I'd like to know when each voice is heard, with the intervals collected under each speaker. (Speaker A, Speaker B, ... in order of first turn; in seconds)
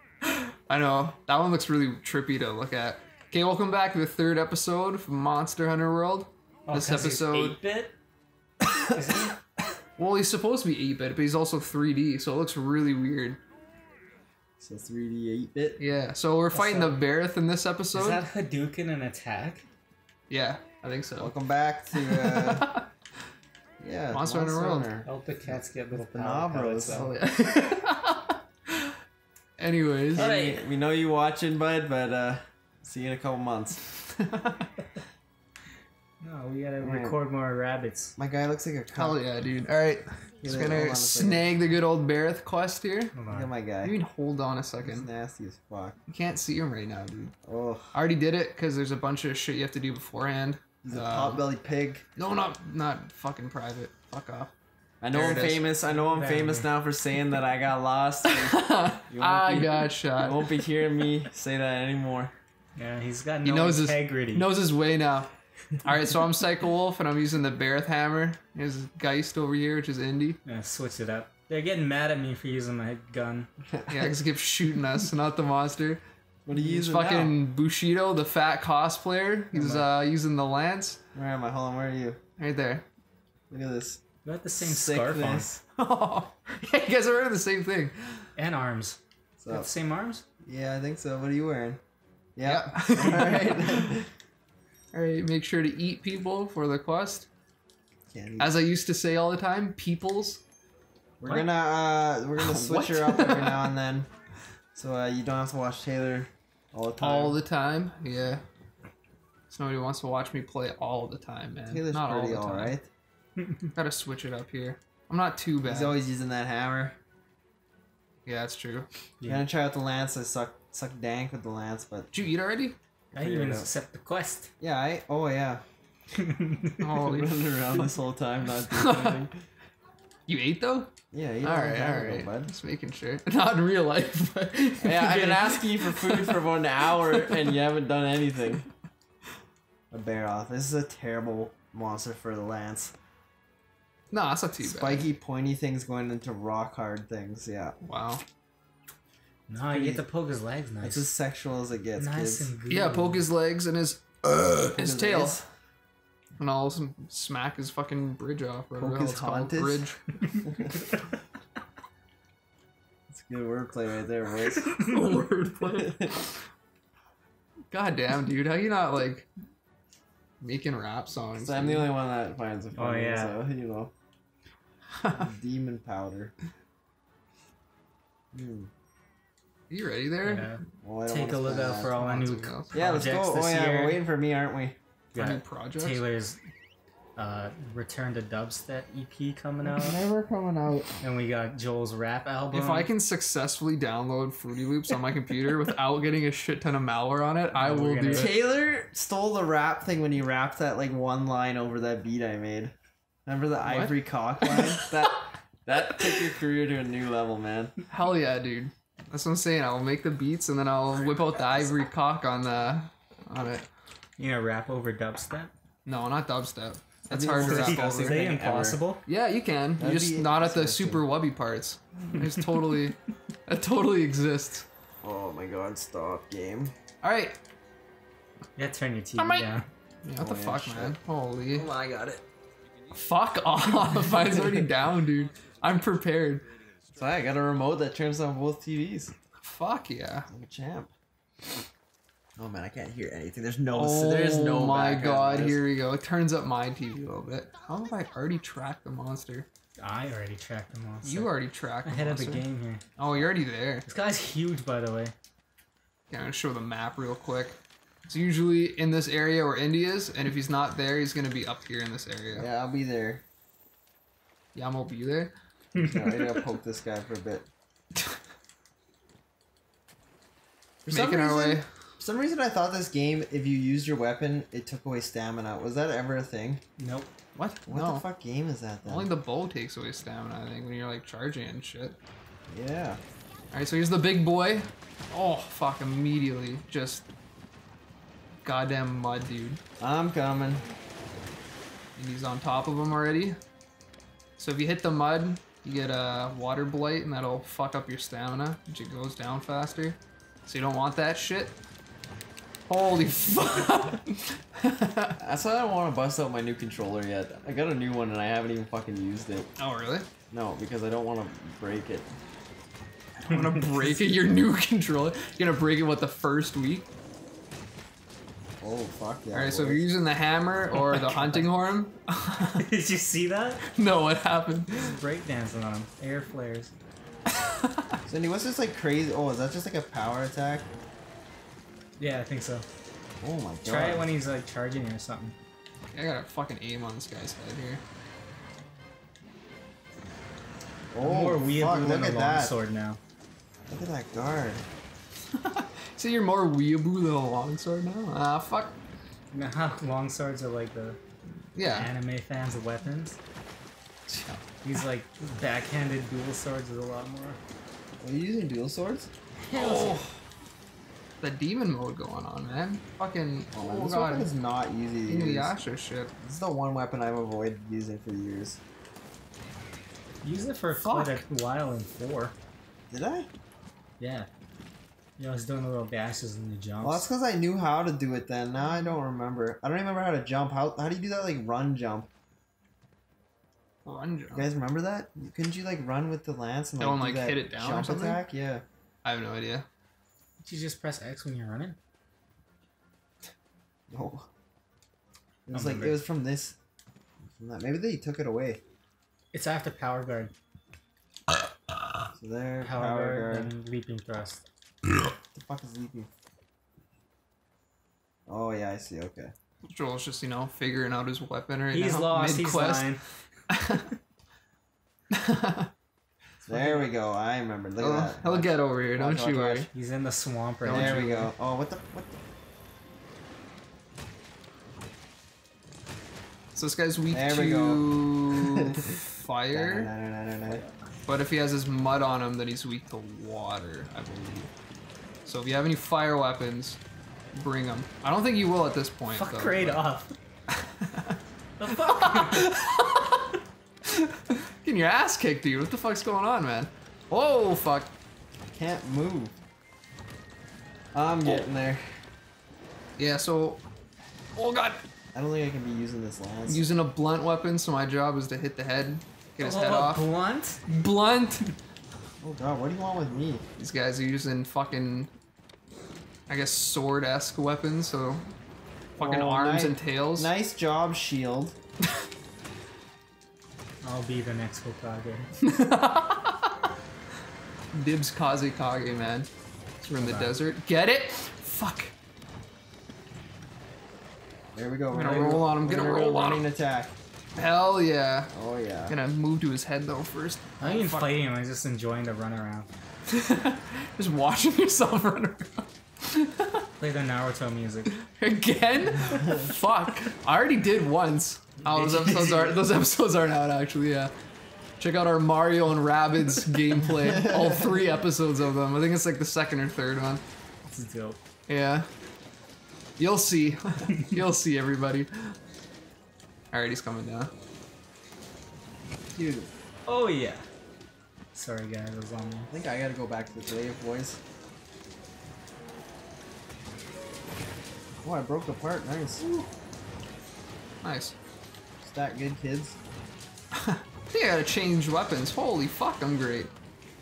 Speaker A: 0.2-7.6, 10.0-13.4, 15.8-18.2, 20.3-21.3, 21.9-22.9, 24.1-24.9, 26.8-28.3, 29.6-30.3, 34.2-34.6, 38.9-43.2, 43.8-45.1, 46.1-47.3, 47.9-51.4, 52.1-54.5, 55.1-55.7, 58.3-60.6, 63.4-70.4, 73.9-81.0, 82.4-82.8, 85.8-88.2, 92.4-93.9, 94.9-97.3, 98.4-100.4, 102.4-103.6, 107.0-108.4, 109.5-112.7, 113.7-116.0, 118.2-118.9, 122.1-122.8, 126.8-127.5, 128.7-129.2, 130.3-130.9, 131.4-137.5, 144.1-145.1, 147.8-148.2, 152.7-155.4, 156.4-160.2, 164.7-166.4, 167.7-169.3, 170.4-171.9, 175.0-175.2, 179.7-180.5, 181.7-183.1, 185.1-186.0, 192.5-198.3, 203.6-205.1, 207.9-213.7, 215.8-218.2, 219.1-224.7, 227.0-227.4, 229.2-231.7, 232.9-236.5, 239.4-240.3, 243.7-249.5, 251.0-252.4, 253.0-253.8, 256.1-262.5, 264.5-265.3, 270.9-271.6, 277.3-278.0, 278.8-282.0, 283.5-287.1, 288.4-289.6, 291.9-293.4, 294.4-301.6, 302.7-305.1, 309.6-310.1, 313.2-316.9, 319.3-322.6, 323.7-325.0, 335.9-337.8, 345.4-348.8, 351.5-351.9, 354.1-354.4, 359.5-360.1, 361.2-364.3, 365.1-366.1, 370.7-371.2, 378.6-379.0, 383.9-384.5, 386.8-388.2, 389.0-389.6, 409.6-412.9, 413.5-413.8, 415.1-415.7, 417.8-419.7, 420.6-421.3, 426.5-429.9, 431.1-434.5, 435.2-436.8, 437.3-439.8, 440.8-441.1, 441.7-443.2, 443.9-447.9, 453.0-453.6, 454.4-454.8, 456.5-460.1, 460.7-461.5, 463.6-465.1, 466.3-468.3, 468.9-470.3, 475.4-476.5, 477.7-479.3, 479.8-481.9, 484.9-486.5, 487.4-488.3, 488.9-491.2, 493.1-496.6, 497.9-504.1, 504.8-510.2, 511.5-511.9, 513.0-515.3, 516.5-517.3, 530.8-531.1, 533.6-536.5
Speaker B: 6.7-7.9, 8.9-9.4, 16.5-17.0, 17.9-19.6, 25.0-27.1, 30.1-30.6, 36.2-38.1, 43.1-43.5, 55.9-56.7, 62.8-64.5, 70.4-73.5, 79.5-79.9, 84.2-85.6, 88.3-90.2, 113.4-113.7, 123.1-124.5, 126.2-126.9, 149.5-151.1, 151.9-153.3, 172.7-173.4, 180.2-184.0, 185.1-186.4, 187.2-190.0, 191.0-192.9, 197.5-198.3, 214.2-215.5, 217.4-219.0, 228.6-229.7, 249.8-251.3, 251.8-252.8, 253.8-255.1, 265.8-266.4, 276.8-277.1, 313.3-313.6, 320.7-321.4, 322.6-323.6, 324.8-326.7, 332.0-332.6, 333.6-335.4, 341.0-343.0, 349.3-351.0, 351.6-353.2, 354.6-357.4, 359.4-360.0, 370.2-372.3, 374.0-374.3, 375.2-377.1, 390.4-391.8, 395.5-396.0, 399.3-400.3, 402.6-404.4, 411.7-413.0, 416.4-416.9, 419.7-421.3, 439.1-440.1, 441.6-442.5, 459.4-460.6, 473.8-475.3, 480.0-480.4, 490.6-492.7, 496.8-497.9, 501.6-502.6, 510.6-511.2, 519.9-520.4, 521.3-522.5
Speaker C: 14.6-15.8, 21.2-22.7, 23.8-27.1, 30.1-33.8, 36.8-37.2, 38.2-39.2, 40.4-41.5, 43.3-44.0, 44.8-46.0, 47.4-48.0, 50.8-52.0, 55.0-62.3, 73.7-74.1, 76.5-77.3, 81.1-82.2, 83.5-84.0, 84.6-85.5, 89.4-89.7, 90.4-91.8, 92.3-94.1, 98.1-98.5, 101.2-104.1, 104.7-107.4, 111.7-112.9, 115.6-117.0, 119.2-122.1, 123.1-123.7, 124.6-125.6, 127.0-129.3, 131.1-132.5, 134.8-138.7, 139.9-142.9, 144.6-147.7, 149.6-150.0, 150.8-152.5, 154.8-155.4, 158.7-159.9, 160.4-160.7, 163.1-164.8, 165.8-166.2, 171.4-173.9, 175.2-176.3, 178.3-178.7, 180.8-181.9, 182.7-184.8, 189.6-191.0, 198.1-202.7, 203.2-207.7, 217.1-218.8, 219.8-221.0, 225.0-226.7, 230.2-231.0, 231.6-232.2, 234.1-234.7, 236.9-239.1, 240.3-240.9, 242.4-245.6, 262.3-263.2, 265.8-267.5, 270.9-276.6, 277.7-279.1, 282.5-283.0, 289.8-290.7, 305.2-309.5, 310.3-312.1, 318.6-319.9, 328.1-330.7, 333.2-334.1, 340.9-342.6, 343.7-344.6, 358.0-359.1, 363.5-365.5, 366.2-368.6, 372.9-373.3, 376.8-382.1, 384.3-388.6, 393.9-394.3, 395.5-396.6, 397.3-398.6, 402.1-403.5, 405.3-406.1, 408.3-409.3, 416.4-419.7, 420.7-422.2, 427.1-428.8, 429.5-430.6, 448.5-449.3, 450.9-451.9, 455.1-456.7, 462.2-463.4, 469.0-471.6, 484.5-486.9, 488.3-489.0, 507.1-507.6, 519.1-519.5, 522.5-524.2, 528.0-529.2, 531.8-532.8